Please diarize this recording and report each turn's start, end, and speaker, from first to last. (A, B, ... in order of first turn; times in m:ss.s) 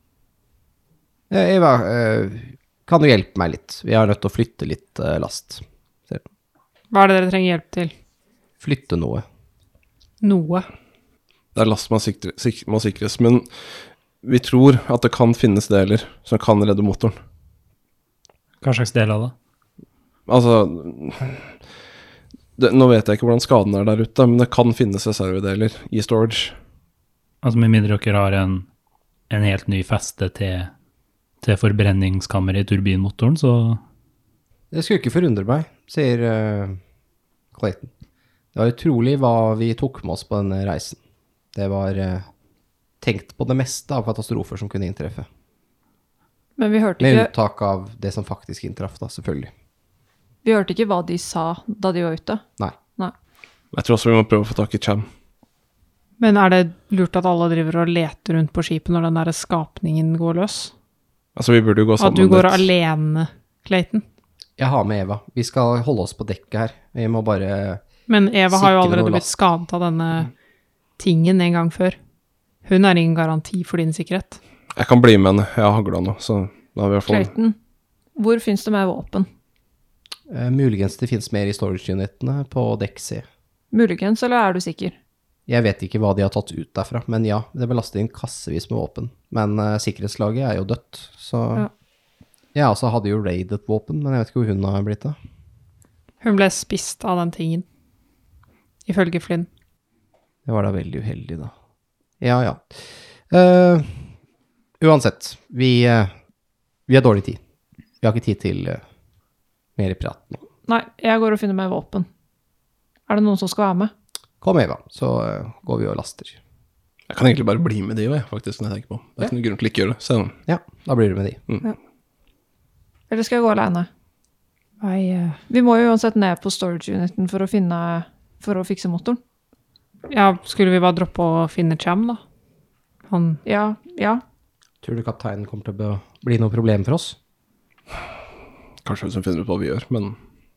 0:01.3-0:06.2 A
0:06.9-0:07.9 B
0:08.6-0:09.2 A
0:10.2-0:10.6 B
0:11.5-0:17.2 C
0:18.6-0:19.3 D
0:20.3-0:21.6 C
0:22.6-0:26.6 C
0:27.4-0:28.6 D
0:29.3-0:30.7 D
0:31.4-0:33.8 D
0:34.7-0:36.8 A
0:37.5-0:37.9 A
0:38.5-0:41.0 A
0:41.5-0:42.3 A
0:43.0-0:45.3 A
0:46.6-0:47.3 E
0:47.0-0:49.5 A
0:50.4-0:52.4 E
0:53.7-0:55.0 C
0:56.2-1:00.7 B
1:01.4-1:02.7 C
1:02.0-1:04.0 B
1:04.6-1:07.8 A
1:08.1-1:10.3 B
1:08.5-1:09.3 A
1:11.0-1:12.0 B
1:12.6-1:14.4 B
1:14.8-1:17.3 C
1:17.1-1:17.6 E
1:18.2-1:19.3 E
1:20.3-1:23.2 A
1:23.7-1:24.9 E
1:25.5-1:31.7 A
1:32.5-1:35.2 A
1:36.2-1:37.6 B
1:38.8-1:39.5 B
1:40.4-1:41.5 A
1:42.2-1:44.0 A
1:44.8-1:46.1 A
1:46.9-1:47.4 A
1:48.0-1:48.8 A
1:49.8-1:50.4 A
1:50.7-1:52.1 E
1:53.1-1:53.9 E
1:54.4-1:56.4 A
1:57.1-2:00.3 C
2:00.5-2:01.4 A
2:03.1-2:03.9 E
2:04.8-2:05.4 B
2:05.5-2:09.2 E
2:10.1-2:12.2 B
2:13.1-2:13.4 B
2:13.4-2:14.2 E
2:14.8-2:17.2 A
2:18.8-2:20.2 C